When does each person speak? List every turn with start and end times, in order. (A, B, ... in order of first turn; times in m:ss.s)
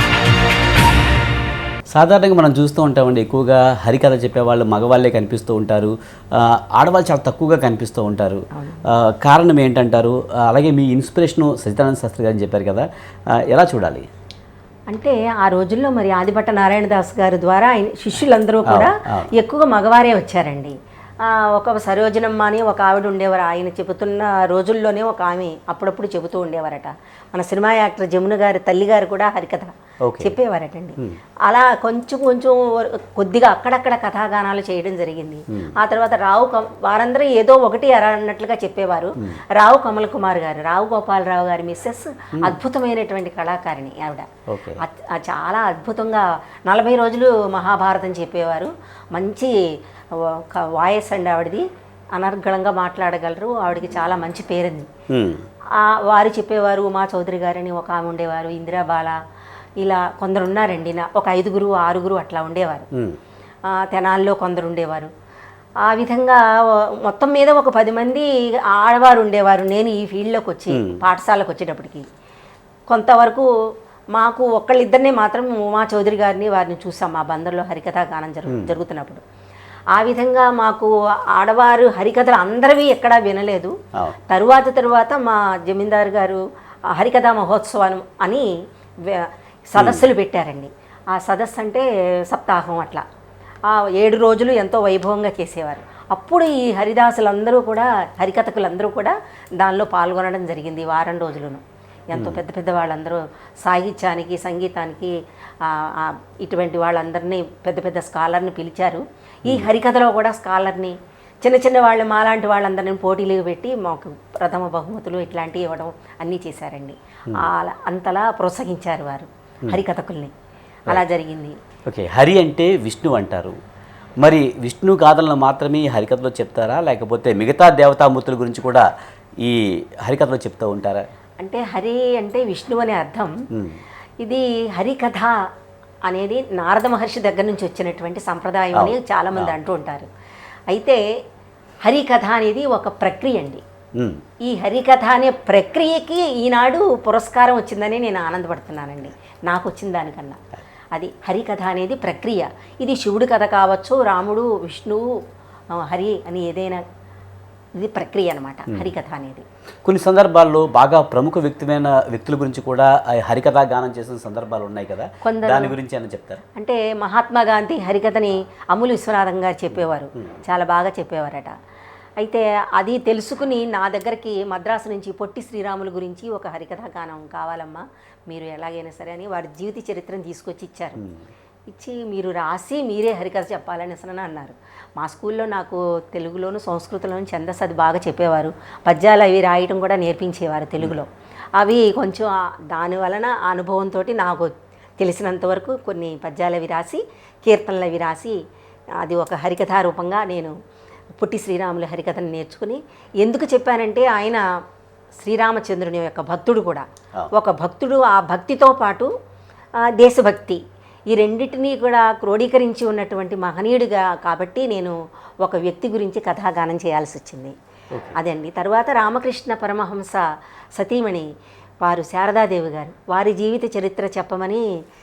0:01.9-0:12.9 A
0:08.5-0:08.9 B
0:13.5-0:14.1 A
0:14.9-0:44.3 B
0:18.6-0:19.3 A
0:30.0-0:30.4 A
0:44.5-0:44.8 A
0:44.8-0:49.5 B
0:50.1-0:51.6 B
0:52.2-0:54.9 B
0:55.1-0:55.4 A
0:55.7-0:59.2 B
0:59.8-1:02.9 B
1:02.9-1:03.2 A
1:03.7-1:05.1 B
1:05.8-1:12.1 B
1:10.7-1:11.0 A
1:12.9-1:13.5 B
1:14.2-1:19.2 B
1:18.5-1:18.8 A
1:19.9-1:23.7 B
1:24.3-1:26.4 B
1:26.9-1:28.5 B
1:29.1-1:33.0 B
1:29.8-1:30.1 A
1:33.7-2:00.3 B
1:42.1-1:42.4 A
1:49.5-1:49.7 A
2:00.9-2:01.6 B
2:01.9-2:03.6 A
2:04.2-2:08.8 A
2:09.4-2:11.0 A
2:11.4-2:13.3 B
2:13.5-2:13.8 A
2:14.2-2:15.3 B
2:16.1-2:20.1 B
2:18.8-2:19.5 A
2:20.7-2:21.0 B
2:21.8-2:23.6 B
2:24.0-2:24.2 A
2:24.4-2:30.4 B
2:30.9-2:35.0 B
2:35.8-2:36.8 B
2:37.8-2:39.4 B
2:39.8-2:46.4 A
2:45.2-2:45.8 B
2:46.6-2:51.5 B
2:52.2-3:01.0 B
3:01.7-3:18.4 B
3:19.0-3:20.5 B
3:21.2-3:24.4 B
3:25.2-3:29.1 B
3:30.0-3:30.6 B
3:31.1-3:37.5 B
3:38.1-3:40.2 B
3:40.8-3:41.3 B
3:41.8-3:44.6 B